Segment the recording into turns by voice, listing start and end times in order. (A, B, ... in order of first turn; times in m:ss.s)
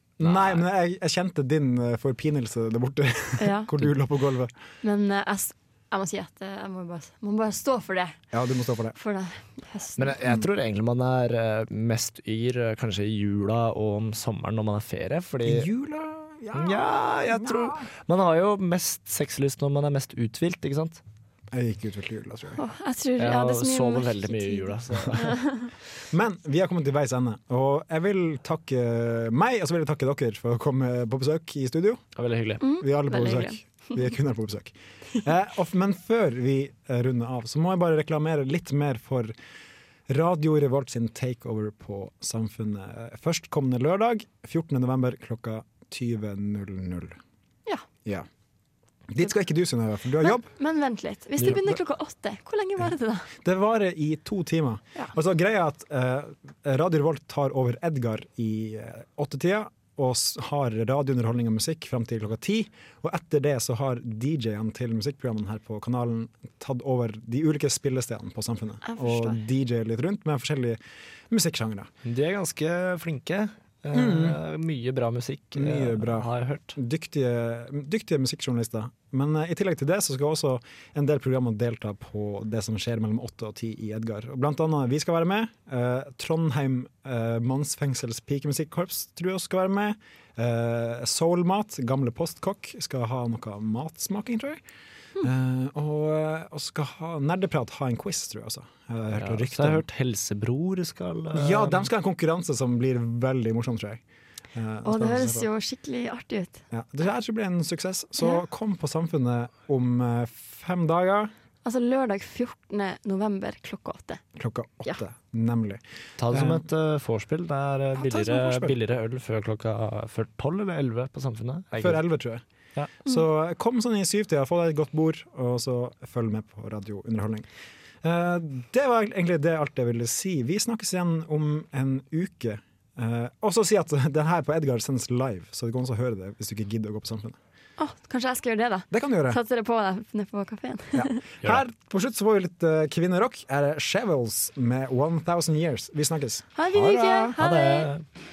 0:00.2-0:00.6 A
0:00.2-0:04.5 B
0:03.4-0:03.7 C
0:04.8-0:08.2 C
0:08.3-0:09.0 B
0:09.0-0:10.4 C
0:10.0-0:15.7 A
0:15.4-0:17.9 B
0:16.5-0:21.0 A
0:21.5-0:22.6 B
0:22.6-0:25.7 C
0:23.2-0:25.4 A
0:26.1-0:32.0 B
0:32.2-0:32.6 A
0:32.6-0:34.0 C
0:32.8-0:39.3 B
0:40.1-0:47.2 B
0:49.1-0:50.5 B
0:50.2-0:53.3 C
0:53.4-1:10.8 B
1:08.8-1:09.4 C
1:11.3-1:11.9 B
1:12.0-1:16.8 A
1:13.9-1:14.4 B
1:15.5-1:34.6 B
1:35.2-1:39.8 B
1:39.1-1:41.9 A
1:41.3-1:44.0 B
1:44.5-1:45.5 B
1:44.8-1:46.6 C
1:46.7-1:51.3 B
1:51.6-1:54.2 C
1:54.4-1:56.6 B
1:56.2-2:02.0 A
1:57.9-1:58.7 B
2:01.8-2:02.4 B
2:03.0-2:07.5 B
2:08.0-2:17.4 B
2:17.8-2:21.2 C
2:18.9-2:19.4 B
2:20.9-2:27.4 B
2:26.6-2:27.9 C
2:27.4-2:28.0 A